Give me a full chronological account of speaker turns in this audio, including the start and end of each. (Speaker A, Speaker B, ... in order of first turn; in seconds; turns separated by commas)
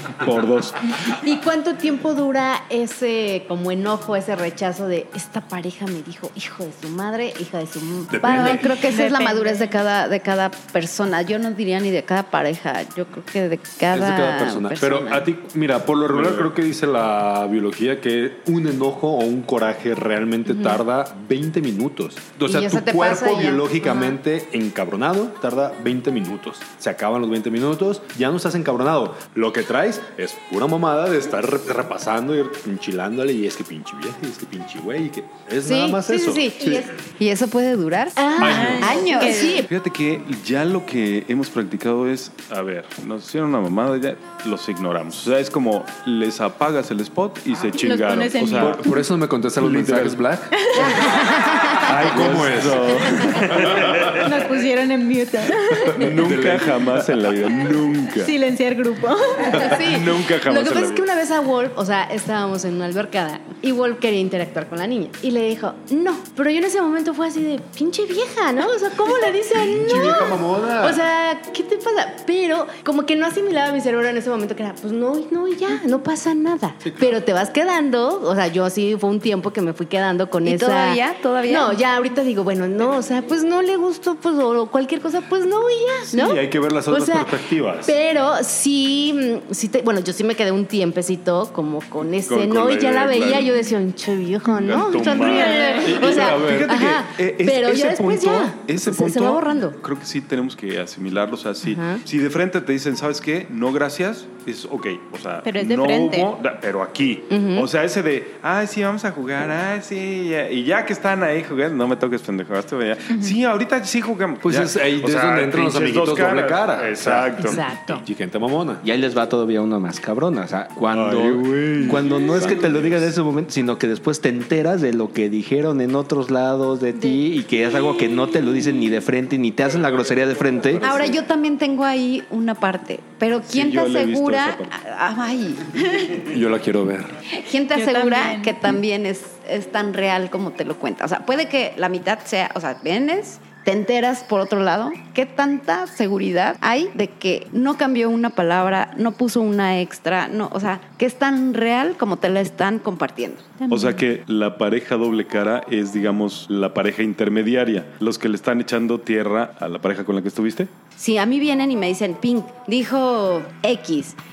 Speaker A: 0.2-0.9, Speaker B: 1.1-8.6, Speaker C: 8.1-8.8, Speaker D: 8.2-15.3, Speaker E: 8.8-9.8, Speaker C: 13.9-36.9, Speaker A: 16.1-16.5, Speaker B: 20.5-20.8, Speaker B: 22.5-24.1, Speaker B: 35.6-36.9, Speaker D: 36.7-39.6, Speaker B: 38.1-39.7, Speaker C: 38.4-39.0, Speaker E: 38.4-39.6, Speaker A: 39.7-48.8, Speaker E: 47.7-49.0, Speaker C: 48.5-50.6, Speaker A: 49.6-50.2, Speaker E: 50.6-51.2, Speaker B: 50.8-51.9, Speaker C: 51.7-54.1, Speaker A: 51.7-54.3, Speaker E: 54.1-56.1, Speaker C: 55.9-57.3, Speaker A: 56.0-58.3, Speaker E: 58.1-59.8, Speaker B: 59.4-99.8, Speaker A: 59.6-61.0, Speaker C: 69.5-71.0, Speaker C: 76.8-77.1, Speaker D: 80.4-81.8, Speaker C: 86.1-87.9, Speaker A: 92.2-93.5, Speaker A: 94.5-117.6, Speaker E: 95.0-96.0, Speaker C: 95.8-96.9, Speaker B: 101.7-102.0, Speaker E: 105.4-106.3, Speaker B: 107.3-107.7, Speaker C: 114.4-117.2, Speaker B: 117.4-118.0, Speaker C: 117.9-118.8, Speaker F: 118.8-131.1, Speaker A: 120.9-123.0, Speaker C: 130.7-131.2, Speaker D: 130.8-136.2, Speaker A: 133.4-134.7, Speaker C: 136.2-137.2, Speaker D: 137.3-153.5, Speaker E: 137.7-138.7, Speaker E: 153.6-154.0, Speaker A: 153.7-160.7, Speaker D: 161.0-164.2